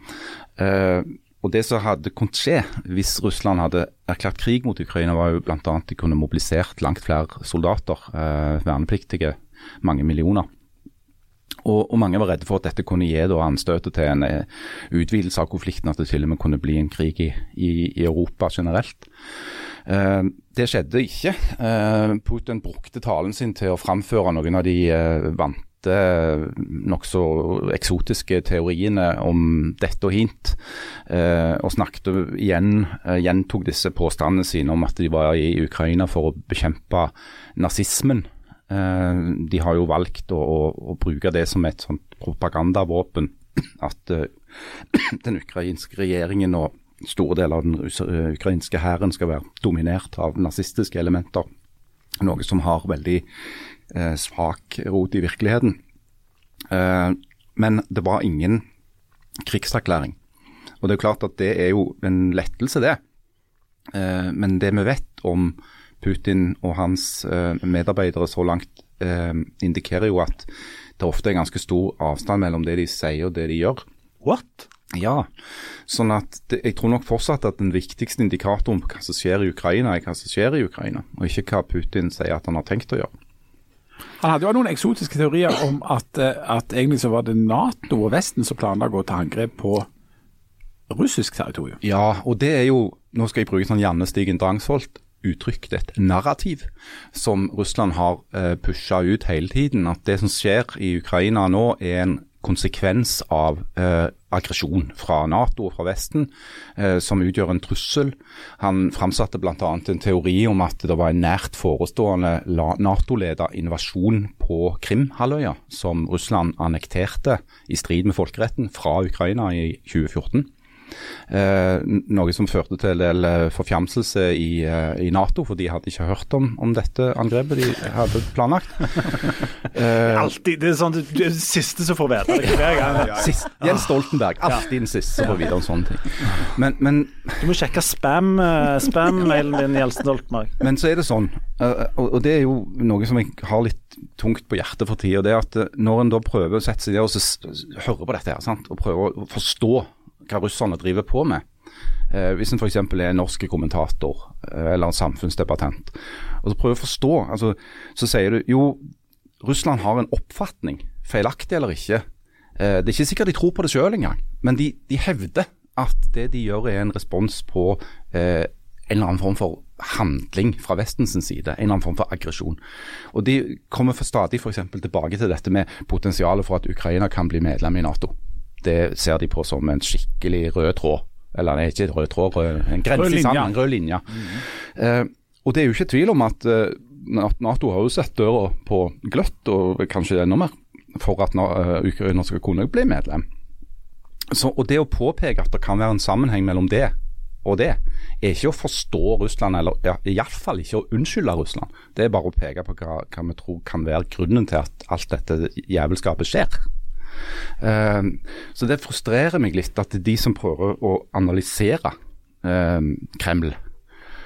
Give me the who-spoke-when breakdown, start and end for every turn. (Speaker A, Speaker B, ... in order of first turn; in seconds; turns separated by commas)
Speaker A: 0.6-10.5, Speaker A: 11.6-19.1, Speaker A: 19.9-51.5, Speaker A: 52.2-53.2, Speaker A: 53.9-55.8, Speaker A: 56.7-58.6, Speaker A: 59.4-60.2, Speaker A: 60.8-63.0, Speaker A: 63.9-73.8, Speaker B: 74.2-74.7, Speaker A: 74.9-75.3, Speaker A: 75.9-83.1, Speaker C: 84.2-89.9, Speaker C: 90.9-91.8, Speaker A: 91.8-120.5, Speaker A: 121.3-130.3, Speaker B: 130.0-133.9, Speaker A: 132.5-137.5, Speaker B: 137.4-140.6, Speaker A: 140.6-151.4, Speaker A: 152.1-158.8, Speaker A: 159.4-162.0, Speaker A: 162.6-172.6, Speaker A: 173.1-193.3, Speaker C: 182.9-183.5, Speaker A: 194.3-206.6, Speaker A: 207.6-213.6